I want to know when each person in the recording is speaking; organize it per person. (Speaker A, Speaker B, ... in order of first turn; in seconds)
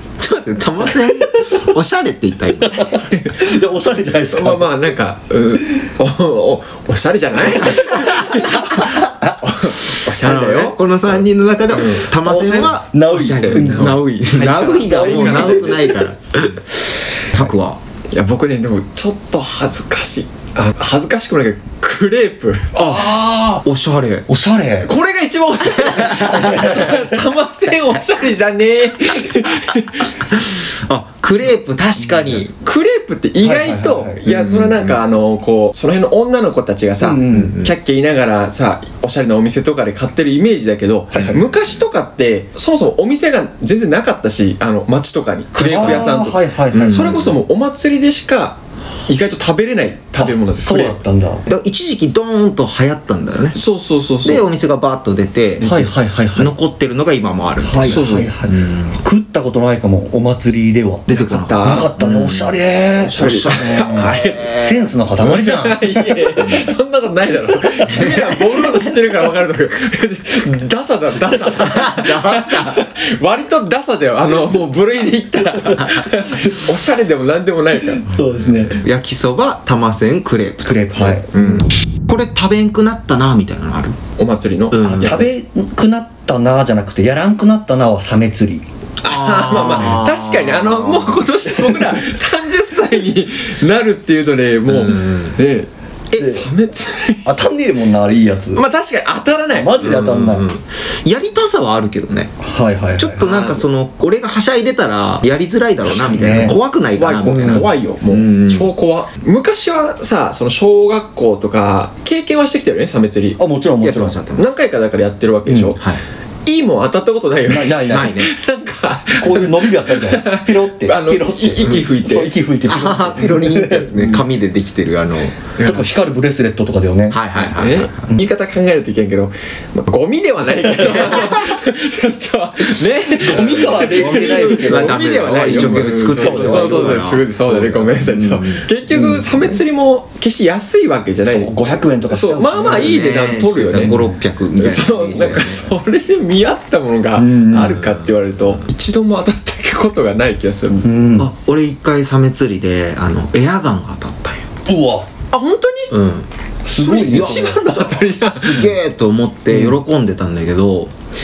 Speaker A: 0.2-2.8, 7.8-9.3, 9.9-17.8, 22.8-24.3, 25.9-26.9, 30.1-32.5, 34.3-35.0, 37.3-37.7, 41.1-41.8, 45.6-46.1, 46.7-47.4, 51.5-53.6, 54.2-55.7, 56.4-59.0, 61.1-62.5, 63.2-64.9, 66.4-66.7, 67.9-68.3, 71.6-72.8, 78.4-84.0, 84.7-85.3, 89.0-91.2, 94.7-95.3, 96.1-96.3, 99.8-102.3, 103.0-108.7, 113.8-114.5, 115.8-116.0, 117.9-118.3, 122.6-125.5, 127.1-128.1, 130.8-131.6, 133.3-139.4, 142.5-145.7, 151.2-154.5, 155.9-156.3, 157.1-160.9
Speaker B: 2.6-4.9, 11.9-14.0, 14.8-15.9, 22.8-23.6, 24.3-24.9, 26.2-27.1, 32.0-32.4, 33.4-34.2, 37.0-37.6, 41.1-41.4, 45.6-47.1, 50.2-51.4, 55.6-56.5, 57.6-66.3, 67.7-68.8, 71.3-71.5, 78.0-78.8, 80.6-81.3, 84.8-88.7, 89.5-90.0, 96.2-96.5, 97.2-98.7, 99.5-100.5, 102.4-103.3, 105.8-106.6, 107.2-107.7, 113.4-114.2, 115.5-115.7, 117.4-118.3, 119.2-124.2, 125.6-127.3, 133.2-137.1, 138.1-138.4, 141.2-143.2, 143.7-144.2, 145.4-145.7, 147.2-147.8, 150.8-151.3, 154.7-155.1, 156.6-157.6, 158.3-158.7, 159.5-159.8
Speaker C: 2.8-3.3, 4.3-12.1, 13.5-16.1, 18.1-22.8, 24.8-30.1, 32.6-51.0, 53.5-54.5, 55.6-55.9, 57.8-58.3, 61.1-61.9, 63.0-64.5, 65.2-78.0, 84.2-85.3, 89.0-97.3, 98.5-99.7, 103.2-103.7, 106.9-113.4, 114.3-115.8, 116.5-122.4, 125.5-125.9, 127.3-141.5, 142.1-144.0, 144.5-150.9, 155.3-155.9, 156.8-158.7